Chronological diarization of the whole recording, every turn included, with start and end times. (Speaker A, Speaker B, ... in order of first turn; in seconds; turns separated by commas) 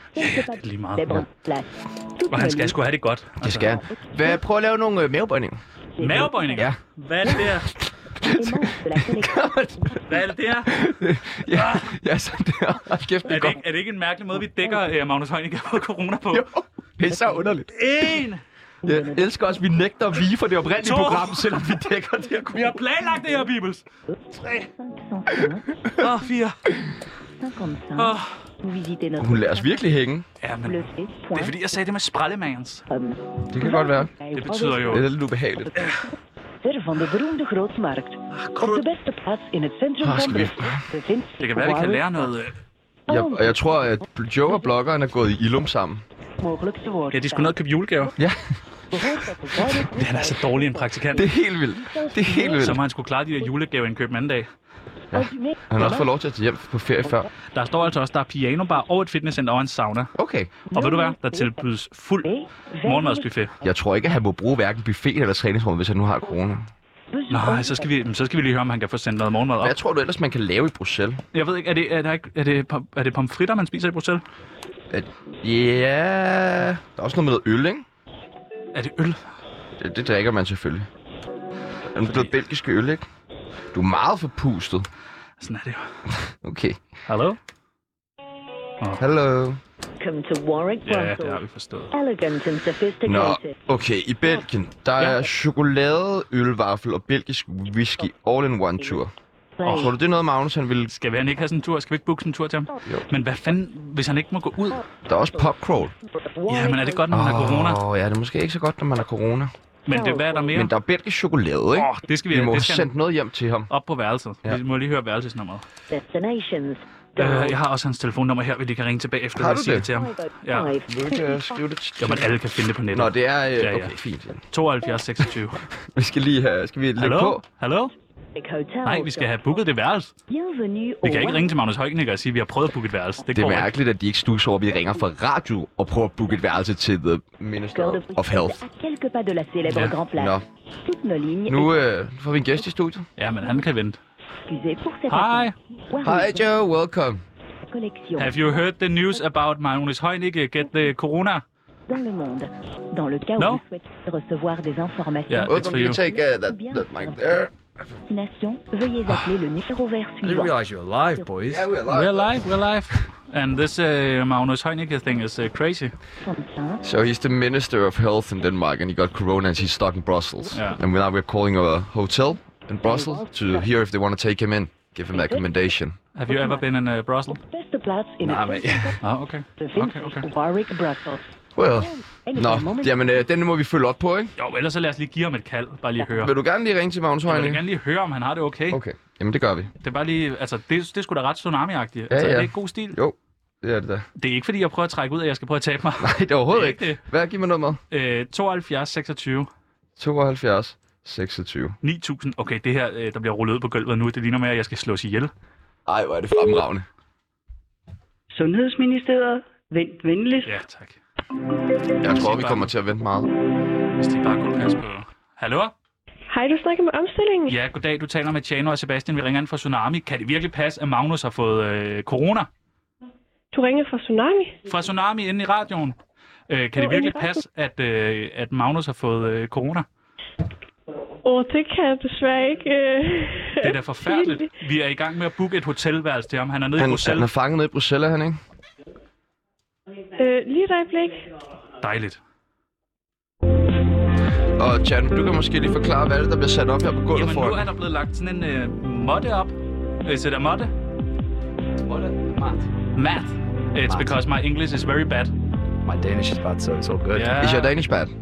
Speaker A: 0.1-2.8, Speaker B: 0.2-1.2, Speaker B: 2.3-3.7, Speaker C: 3.4-5.6, Speaker A: 3.5-4.4, Speaker A: 6.0-6.7, Speaker B: 6.0-7.7, Speaker A: 7.2-7.5, Speaker C: 8.2-10.0, Speaker A: 8.3-10.3, Speaker B: 10.1-10.7, Speaker C: 10.7-13.6, Speaker B: 11.5-12.0, Speaker A: 13.3-13.6, Speaker B: 13.3-16.5, Speaker A: 14.4-14.9, Speaker C: 16.3-17.7, Speaker A: 17.1-17.5, Speaker B: 17.7-18.4, Speaker A: 18.8-19.6, Speaker C: 18.8-22.8, Speaker B: 20.8-23.8, Speaker A: 23.1-23.5, Speaker A: 24.1-26.1, Speaker C: 25.3-26.1, Speaker B: 26.0-26.6, Speaker A: 27.3-30.0, Speaker B: 28.0-28.3, Speaker C: 29.2-30.3, Speaker B: 30.4-32.9, Speaker A: 30.6-31.8, Speaker A: 32.9-35.1, Speaker C: 33.5-34.1, Speaker B: 34.3-35.1, Speaker C: 34.8-35.7, Speaker A: 35.6-42.3, Speaker B: 35.8-36.0, Speaker B: 38.3-38.9, Speaker C: 40.0-40.9, Speaker B: 41.4-42.6, Speaker A: 43.1-44.7, Speaker C: 43.1-46.0, Speaker A: 46.4-48.2, Speaker B: 47.1-48.1, Speaker C: 48.2-48.5, Speaker A: 48.9-52.8, Speaker B: 49.9-51.3, Speaker C: 51.2-52.8, Speaker B: 52.6-54.5, Speaker A: 55.1-56.1, Speaker C: 55.1-57.3, Speaker B: 57.5-60.1, Speaker C: 60.2-60.5, Speaker A: 60.7-61.6, Speaker B: 60.8-62.3, Speaker A: 62.2-63.7, Speaker B: 62.8-63.5, Speaker C: 63.6-66.7, Speaker A: 67.1-67.9, Speaker B: 67.3-69.8, Speaker C: 69.6-71.2, Speaker B: 71.3-74.2, Speaker C: 74.9-77.9, Speaker B: 78.7-79.2, Speaker C: 79.8-80.9, Speaker C: 81.9-83.0, Speaker B: 82.0-82.3, Speaker C: 83.7-84.9, Speaker B: 85.4-85.9, Speaker C: 86.1-86.8, Speaker B: 87.1-87.4, Speaker C: 89.0-89.6, Speaker A: 90.0-93.6, Speaker B: 90.8-91.9, Speaker C: 93.0-99.1, Speaker A: 99.6-100.0, Speaker B: 99.6-99.9, Speaker C: 99.7-100.9, Speaker B: 100.9-104.8, Speaker A: 104.7-105.5, Speaker C: 105.1-105.9, Speaker A: 106.1-107.3, Speaker B: 106.5-107.8, Speaker C: 107.1-109.5, Speaker A: 109.9-110.7, Speaker B: 109.9-110.7, Speaker C: 110.5-113.7, Speaker B: 111.8-112.9, Speaker B: 113.7-115.6, Speaker A: 115.9-117.6, Speaker B: 117.2-120.7, Speaker C: 119.3-119.9, Speaker A: 119.9-121.6, Speaker C: 120.9-122.4, Speaker B: 122.0-124.0, Speaker C: 122.9-124.4, Speaker B: 124.5-125.6, Speaker C: 125.8-127.4, Speaker B: 127.0-127.9, Speaker A: 128.3-129.6, Speaker B: 128.8-130.1, Speaker A: 130.3-131.5, Speaker B: 131.0-133.7, Speaker C: 133.3-138.6, Speaker A: 137.7-141.9, Speaker B: 139.7-140.0, Speaker C: 140.1-140.5, Speaker C: 141.5-143.1, Speaker B: 143.2-144.0, Speaker A: 144.5-146.5, Speaker B: 145.1-145.5, Speaker C: 146.0-147.2, Speaker A: 147.6-148.6, Speaker B: 148.2-151.4, Speaker A: 151.9-157.4, Speaker B: 153.4-153.6, Speaker B: 155.3-156.0, Speaker C: 155.5-157.5, Speaker A: 158.1-160.6, Speaker D: 160.2-161.7, Speaker C: 161.5-162.4, Speaker B: 161.9-165.9, Speaker A: 166.2-166.8, Speaker C: 166.8-176.0, Speaker B: 170.5-170.8, Speaker A: 172.8-173.7, Speaker A: 175.1-175.7, Speaker B: 176.2-177.4, Speaker A: 176.3-176.7, Speaker A: 177.3-179.0, Speaker D: 178.2-178.9, Speaker B: 179.0-180.3, Speaker A: 179.6-183.2, Speaker C: 181.6-184.3, Speaker B: 184.4-186.3, Speaker C: 186.2-187.6, Speaker B: 187.3-188.8, Speaker C: 188.7-189.7, Speaker B: 189.8-193.0, Speaker C: 192.1-194.1, Speaker B: 194.2-197.0, Speaker C: 196.0-197.8, Speaker B: 197.9-199.5, Speaker C: 200.0-201.8, Speaker B: 201.8-205.3, Speaker C: 205.9-206.9, Speaker E: 208.3-210.6, Speaker B: 210.4-211.0, Speaker C: 212.0-213.3, Speaker B: 212.1-212.7, Speaker B: 214.0-215.7, Speaker F: 216.3-217.6, Speaker B: 217.5-222.5, Speaker F: 223.5-224.6, Speaker B: 224.7-226.0, Speaker B: 226.5-229.9, Speaker F: 226.8-227.4, Speaker F: 231.2-234.5, Speaker B: 233.6-237.3, Speaker C: 236.8-238.4, Speaker F: 240.2-241.3, Speaker B: 241.8-242.2, Speaker C: 244.6-247.7, Speaker B: 247.1-250.7, Speaker D: 251.8-252.7, Speaker B: 252.9-255.3, Speaker D: 253.9-254.2, Speaker D: 255.8-257.4, Speaker B: 257.1-257.7, Speaker C: 257.4-258.1